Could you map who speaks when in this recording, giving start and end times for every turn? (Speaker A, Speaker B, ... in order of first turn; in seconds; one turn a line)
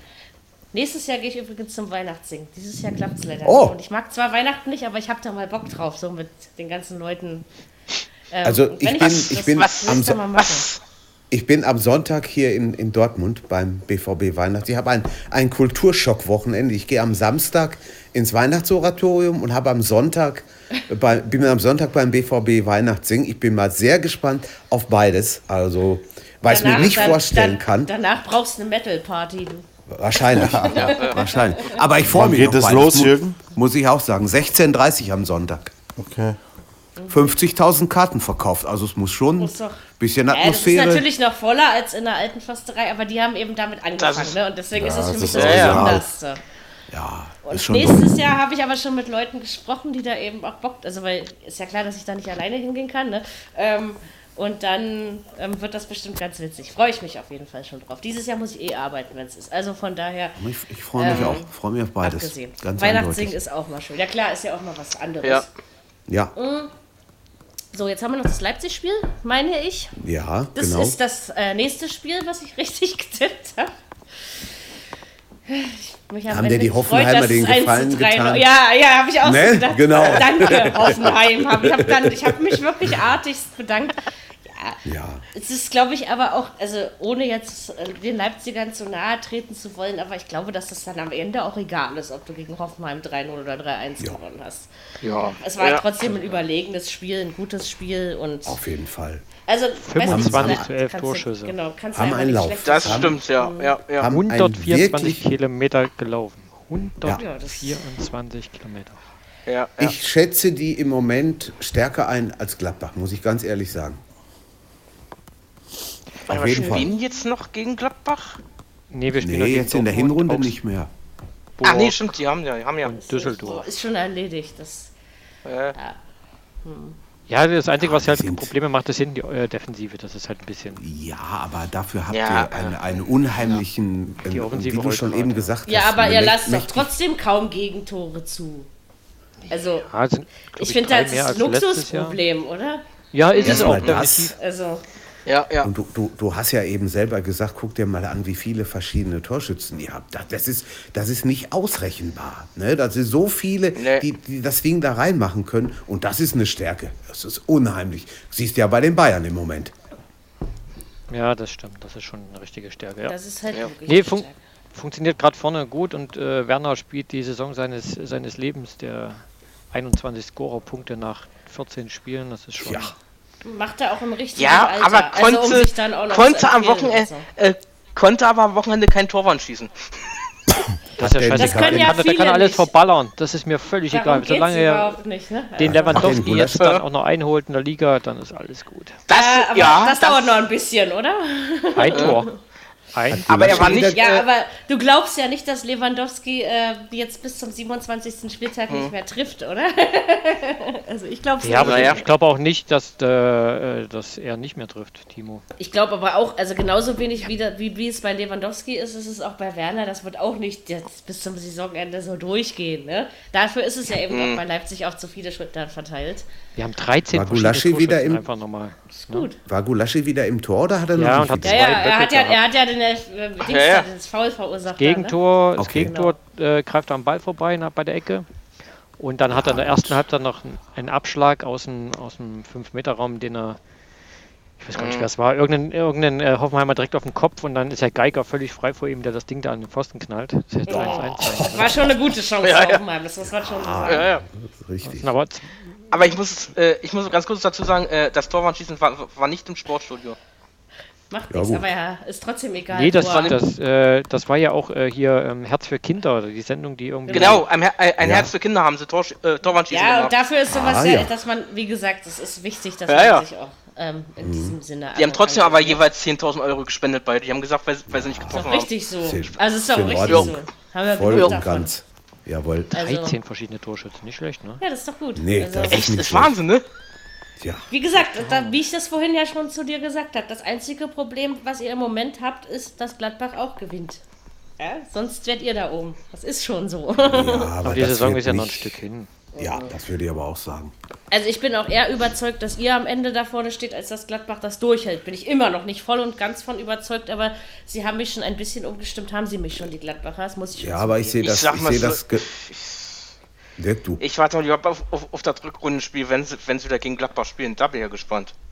Speaker A: 0.7-7.4
Speaker B: 3.4-3.8
Speaker A: 8.3-10.7
Speaker B: 8.4-10.2
Speaker C: 9.0-10.8
Speaker B: 11.3-27.9
Speaker A: 26.4-31.8
Speaker B: 29.9-35.7
Speaker C: 30.7-31.4
Speaker D: 32.1-33.4
Speaker D: 36.0-36.4
Speaker A: 37.0-37.2
Speaker B: 37.1-41.1
Speaker A: 39.4-46.4
Speaker C: 44.0-44.4
Speaker D: 44.7-46.0
Speaker C: 45.3-45.9
Speaker B: 45.4-46.1
Speaker B: 46.9-48.2
Speaker A: 47.4-60.4
Speaker B: 60.4-63.4
Speaker A: 61.0-61.5
Speaker C: 61.1-61.4
Speaker A: 62.0-65.5
Speaker B: 66.1-66.3
Speaker A: 66.3-66.7
Speaker A: 67.7-70.0
Speaker B: 70.0-71.0
Speaker A: 70.5-73.7
Speaker A: 75.5-84.8
Speaker B: 76.3-78.5
Speaker B: 79.2-82.6
Speaker B: 84.8-85.2
Speaker A: 85.3-94.7
Speaker E: 95.0-95.4
Speaker A: 95.4-98.6
Speaker C: 95.6-95.8
Speaker B: 98.5-99.2
Speaker A: 99.5-103.7
Speaker E: 99.8-101.5
Speaker B: 100.0-100.7
Speaker B: 101.9-103.2
Speaker C: 102.6-104.1
Speaker B: 103.9-105.3
Speaker E: 104.1-109.0
Speaker A: 107.1-107.8
Speaker C: 109.5-109.9
Speaker B: 109.8-114.0
Speaker B: 116.3-116.9
Speaker C: 116.3-118.4
Speaker A: 116.5-116.9
Speaker E: 118.9-120.5
Speaker B: 119.1-120.9
Speaker E: 121.6-122.1
Speaker C: 121.6-122.9
Speaker E: 122.8-123.7
Speaker A: 122.9-124.9
Speaker C: 125.5-125.7
Speaker A: 126.6-127.0
Speaker E: 127.3-130.8
Speaker B: 127.8-128.5
Speaker B: 130.8-136.9
Speaker C: 132.1-133.6
Speaker E: 134.2-135.5
Speaker A: 135.7-138.7
Speaker A: 139.5-139.9
Speaker E: 139.8-142.2
Speaker A: 140.6-142.8
Speaker E: 143.1-144.3
Speaker C: 143.3-144.0
Speaker B: 143.4-144.3
Speaker A: 144.4-144.8
Speaker C: 145.2-145.7
Speaker B: 145.6-159.7
Speaker C: 153.8-154.0
Speaker E: 161.1-163.2
Speaker A: 163.1-164.4
Speaker E: 163.9-169.2
Speaker E: 169.7-172.9
Speaker B: 172.6-172.9
Speaker A: 173.4-177.2
Speaker C: 174.3-179.7
Speaker B: 181.0-182.0
Speaker E: 181.0-185.0
Speaker A: 181.3-182.7
Speaker A: 183.9-186.2
Speaker E: 185.6-189.0
Speaker B: 185.6-186.7
Speaker C: 189.1-190.4
Speaker A: 189.1-192.3
Speaker E: 191.8-192.3
Speaker E: 192.9-193.8
Speaker B: 193.1-194.1
Speaker C: 193.3-194.2
Speaker A: 193.7-202.0
Speaker E: 201.4-205.4
Speaker C: 201.6-202.0
Speaker A: 205.6-216.2
Speaker C: 214.1-214.4
Speaker E: 216.6-219.3
Speaker B: 217.1-218.2
Speaker A: 218.9-219.4
Speaker B: 219.4-221.8
Speaker E: 220.9-222.4
Speaker A: 221.4-225.2
Speaker C: 223.4-223.8
Speaker E: 224.8-228.3
Speaker B: 225.6-225.9
Speaker A: 225.7-226.2
Speaker E: 229.0-233.6
Speaker B: 229.3-230.0
Speaker E: 234.6-241.9
Speaker C: 234.8-235.1
Speaker A: 240.7-244.1
Speaker C: 240.7-241.0
Speaker B: 241.2-241.7
Speaker C: 242.4-242.8
Speaker B: 243.2-245.1
Speaker C: 243.8-244.2
Speaker E: 244.8-245.6
Speaker C: 245.9-250.2
Speaker A: 251.1-253.4
Speaker B: 251.3-251.6
Speaker E: 252.7-257.4
Speaker C: 253.0-253.4
Speaker A: 257.1-257.4
Speaker C: 257.1-260.2
Speaker B: 258.0-258.3
Speaker A: 259.7-265.8
Speaker B: 260.5-261.1
Speaker C: 262.9-263.2
Speaker B: 264.2-264.6
Speaker C: 264.9-268.7
Speaker B: 267.9-270.4
Speaker A: 268.3-271.7
Speaker C: 270.1-270.4
Speaker B: 270.9-272.7
Speaker A: 272.7-273.2
Speaker E: 272.7-274.6
Speaker A: 274.6-275.8
Speaker B: 275.1-276.4
Speaker C: 275.7-276.6
Speaker B: 277.4-277.7
Speaker A: 277.7-284.0
Speaker E: 278.0-278.6
Speaker A: 284.6-287.5
Speaker B: 287.0-288.8
Speaker E: 287.6-289.1
Speaker A: 289.3-289.7
Speaker B: 289.4-290.7
Speaker A: 291.1-301.2
Speaker B: 300.6-302.3
Speaker C: 301.2-303.1
Speaker B: 303.6-304.0
Speaker C: 304.0-308.3